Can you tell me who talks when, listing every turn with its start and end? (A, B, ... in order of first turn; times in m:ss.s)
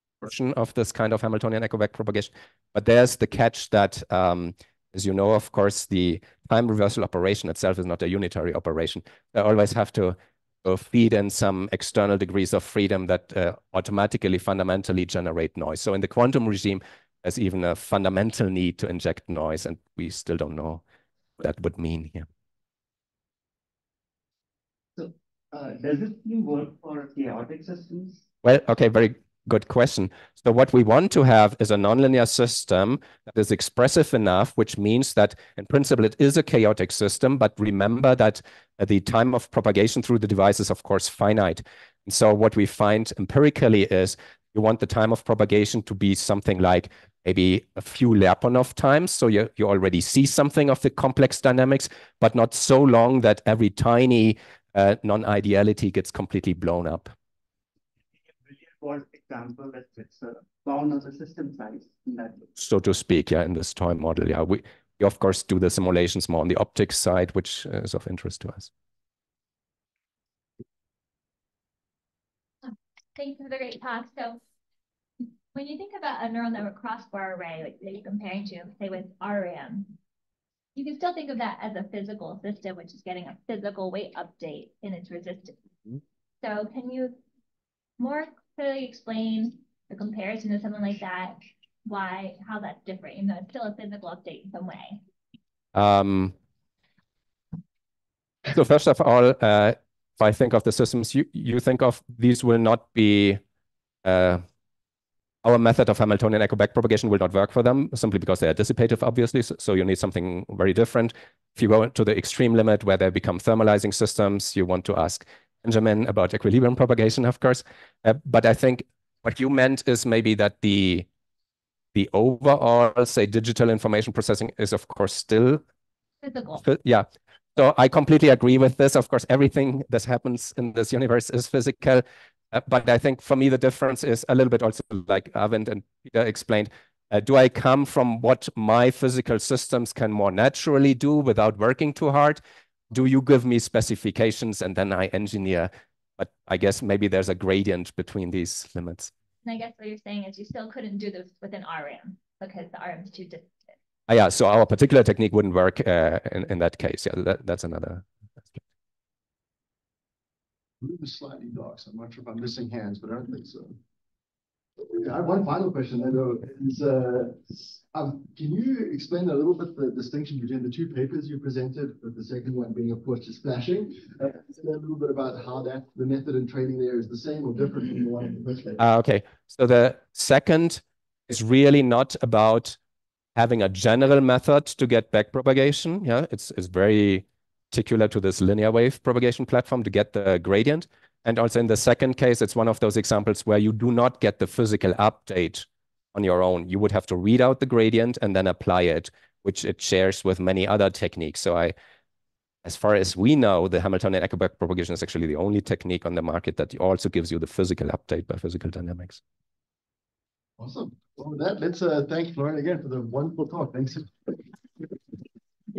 0:00.2-0:20.8 A
0:21.4-0:22.3 A
0:25.0-0:28.2 B
0:28.4-0:57.1 A
0:58.4-1:02.5 B
1:02.6-1:08.7 A
1:13.2-1:14.4 C
1:15.5-1:20.0 C
1:20.8-1:25.6 C
1:26.4-1:27.2 C
1:28.0-1:35.0 C
1:35.7-1:36.3 A
1:38.5-1:43.4 A
1:44.0-1:44.4 A
1:45.4-2:01.1 A
2:01.9-2:05.6 A
2:06.2-2:06.6 C
2:06.6-2:22.4 A
2:22.9-2:29.1 A
2:29.4-2:33.7 C
2:34.1-2:38.6 A
2:40.8-2:43.8 D
2:44.8-2:58.8 D
2:58.8-3:02.8 A
3:03.4-3:21.7 A
3:22.6-3:29.2 A
3:30.6-3:34.9 D